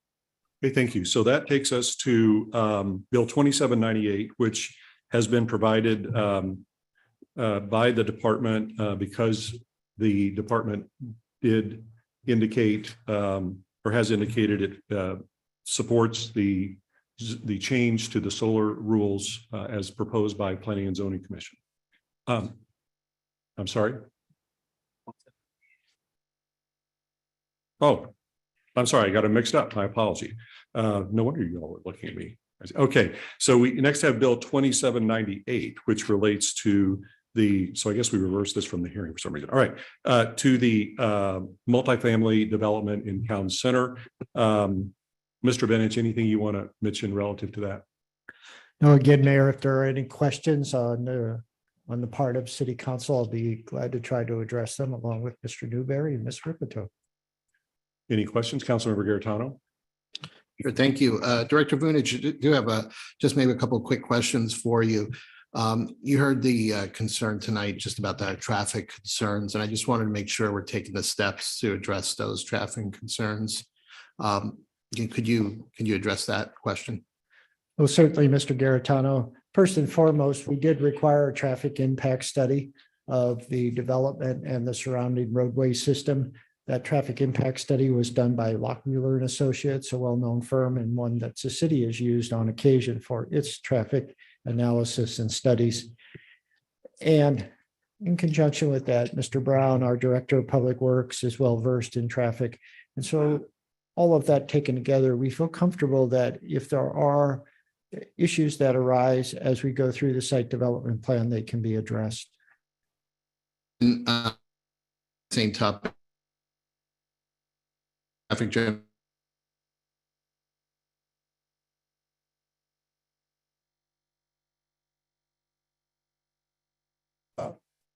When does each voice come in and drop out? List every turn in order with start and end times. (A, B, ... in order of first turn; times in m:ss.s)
0:00.6-0:06.6 A
0:07.4-0:10.9 A
0:11.4-0:21.6 A
0:22.3-0:22.6 A
0:23.6-0:24.0 A
0:27.8-0:28.1 A
0:28.7-0:47.8 A
0:48.8-0:56.9 B
0:58.1-0:59.6 A
1:00.6-1:13.7 C
1:14.2-1:17.0 C
1:17.8-1:35.9 B
1:37.0-1:37.5 B
1:38.0-1:52.3 B
1:53.8-1:54.4 C
1:55.3-1:55.9 C
1:58.3-1:58.8 C